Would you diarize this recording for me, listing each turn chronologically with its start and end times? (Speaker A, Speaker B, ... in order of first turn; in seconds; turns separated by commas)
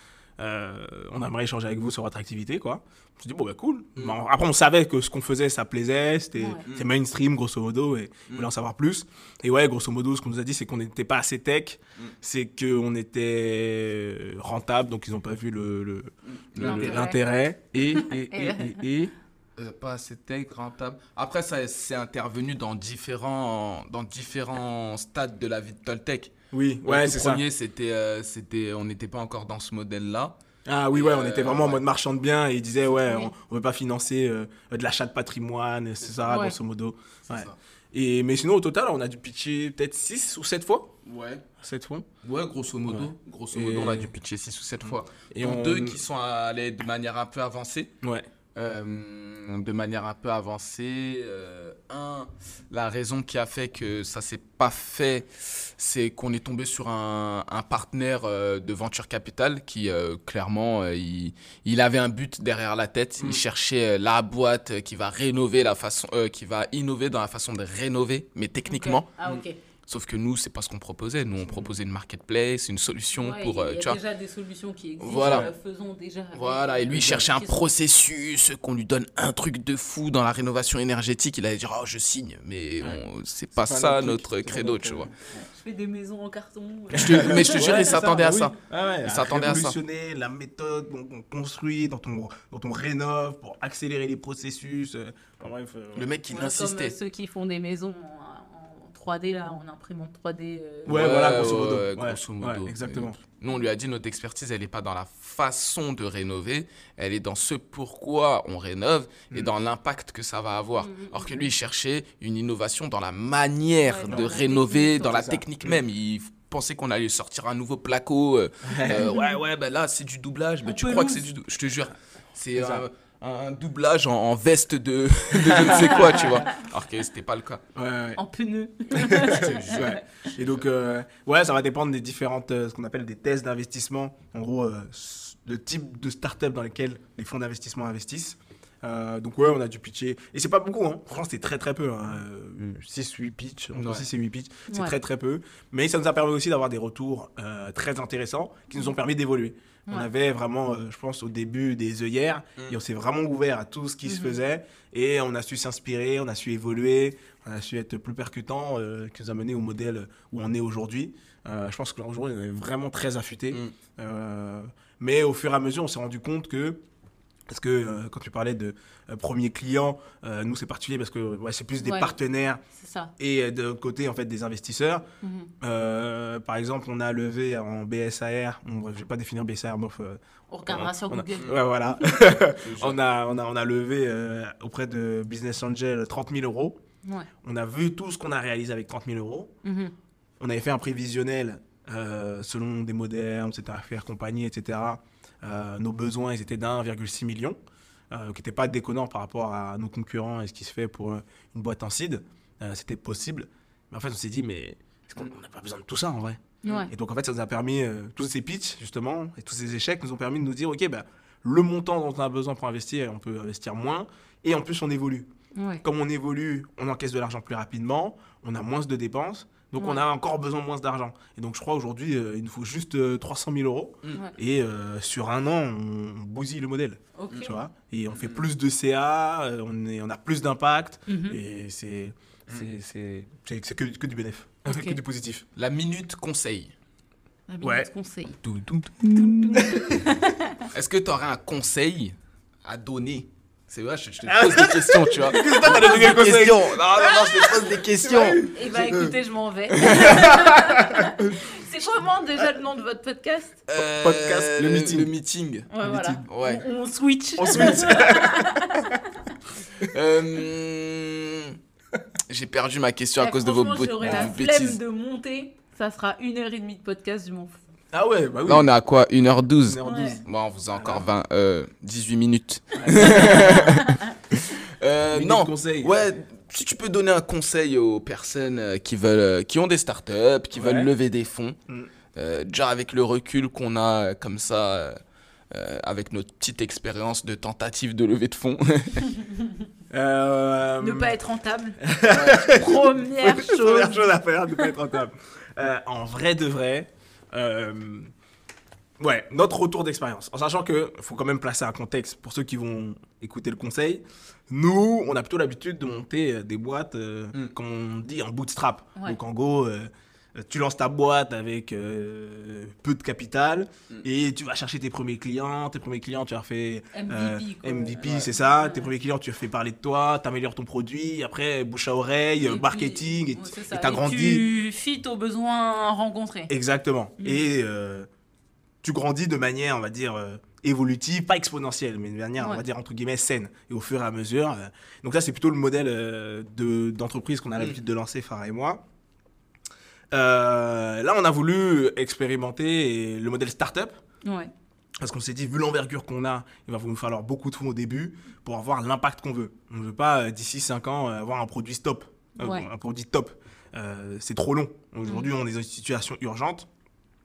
Speaker A: 0.4-19.1, Speaker B: 6.4-6.6, Speaker C: 16.3-17.0, Speaker B: 16.6-17.2, Speaker B: 18.0-18.8, Speaker C: 19.6-26.3, Speaker A: 26.5-27.4, Speaker C: 26.9-30.4, Speaker A: 30.7-41.0, Speaker C: 30.9-31.8, Speaker B: 36.3-36.6, Speaker C: 37.3-37.6, Speaker C: 41.1-41.5, Speaker A: 41.6-42.1, Speaker C: 42.2-47.9, Speaker A: 42.9-44.1, Speaker A: 44.8-46.0, Speaker A: 48.0-48.3, Speaker C: 48.5-69.1, Speaker B: 68.7-69.6, Speaker C: 69.9-74.0, Speaker A: 71.5-71.7, Speaker B: 73.1-77.6, Speaker C: 75.0-75.5, Speaker A: 75.1-75.5, Speaker C: 76.3-85.1, Speaker A: 76.9-77.3, Speaker A: 83.6-85.1, Speaker B: 85.4-87.9, Speaker A: 86.9-96.1, Speaker C: 86.9-89.8, Speaker C: 96.0-97.0, Speaker B: 96.3-101.2, Speaker A: 100.9-103.2, Speaker C: 100.9-127.6, Speaker B: 110.8-111.5, Speaker B: 113.9-115.1, Speaker A: 114.1-115.7, Speaker A: 118.7-119.2, Speaker B: 118.9-119.4, Speaker B: 120.6-121.3, Speaker A: 122.5-122.9, Speaker A: 125.3-126.4, Speaker A: 127.8-128.2, Speaker B: 128.2-130.0, Speaker A: 128.9-166.8, Speaker C: 129.2-130.0, Speaker C: 143.8-144.1, Speaker B: 144.7-144.9, Speaker B: 154.1-154.4, Speaker A: 167.5-172.6, Speaker B: 171.8-172.1, Speaker B: 172.7-173.1, Speaker A: 173.2-175.1, Speaker B: 175.2-175.5, Speaker A: 175.6-186.8, Speaker B: 180.5-182.1, Speaker C: 182.6-183.0, Speaker B: 187.0-187.3, Speaker A: 187.4-189.5, Speaker B: 189.6-189.9, Speaker A: 190.4-197.6, Speaker A: 198.1-215.3, Speaker B: 206.6-206.9, Speaker B: 215.6-215.8, Speaker A: 215.8-235.4, Speaker B: 227.2-227.6, Speaker C: 228.2-228.4, Speaker B: 231.1-231.4, Speaker B: 234.7-235.0, Speaker C: 235.6-236.7, Speaker B: 237.5-238.4, Speaker A: 237.6-237.9, Speaker C: 238.4-239.9, Speaker B: 239.1-240.7, Speaker A: 239.5-239.9, Speaker C: 240.7-248.4, Speaker A: 244.2-249.1, Speaker B: 245.3-246.2, Speaker B: 248.4-253.6, Speaker A: 249.8-251.4, Speaker C: 249.8-250.2, Speaker C: 253.7-255.7, Speaker A: 254.0-255.1, Speaker B: 255.7-259.1, Speaker A: 255.8-256.3, Speaker C: 256.2-256.6, Speaker A: 257.4-258.6, Speaker C: 259.8-261.6, Speaker C: 262.3-264.8, Speaker B: 263.2-267.6, Speaker A: 264.0-264.3, Speaker A: 267.9-268.7, Speaker C: 268.4-281.6, Speaker A: 269.6-271.1, Speaker B: 269.9-270.2, Speaker A: 272.8-273.8, Speaker B: 273.2-274.1, Speaker A: 275.1-275.9, Speaker A: 280.6-280.9, Speaker C: 282.1-285.0, Speaker C: 285.5-289.1, Speaker B: 289.2-289.5, Speaker A: 289.9-291.1, Speaker B: 290.8-291.8, Speaker A: 291.8-298.1, Speaker C: 292.1-292.6, Speaker B: 292.5-294.1, Speaker A: 299.0-324.4, Speaker B: 316.9-318.9, Speaker C: 318.0-318.3, Speaker B: 322.4-326.5, Speaker A: 326.5-328.1, Speaker A: 328.8-338.8, Speaker B: 332.4-332.6, Speaker A: 340.1-343.9, Speaker B: 344.2-344.5, Speaker A: 345.0-356.7, Speaker B: 352.4-352.7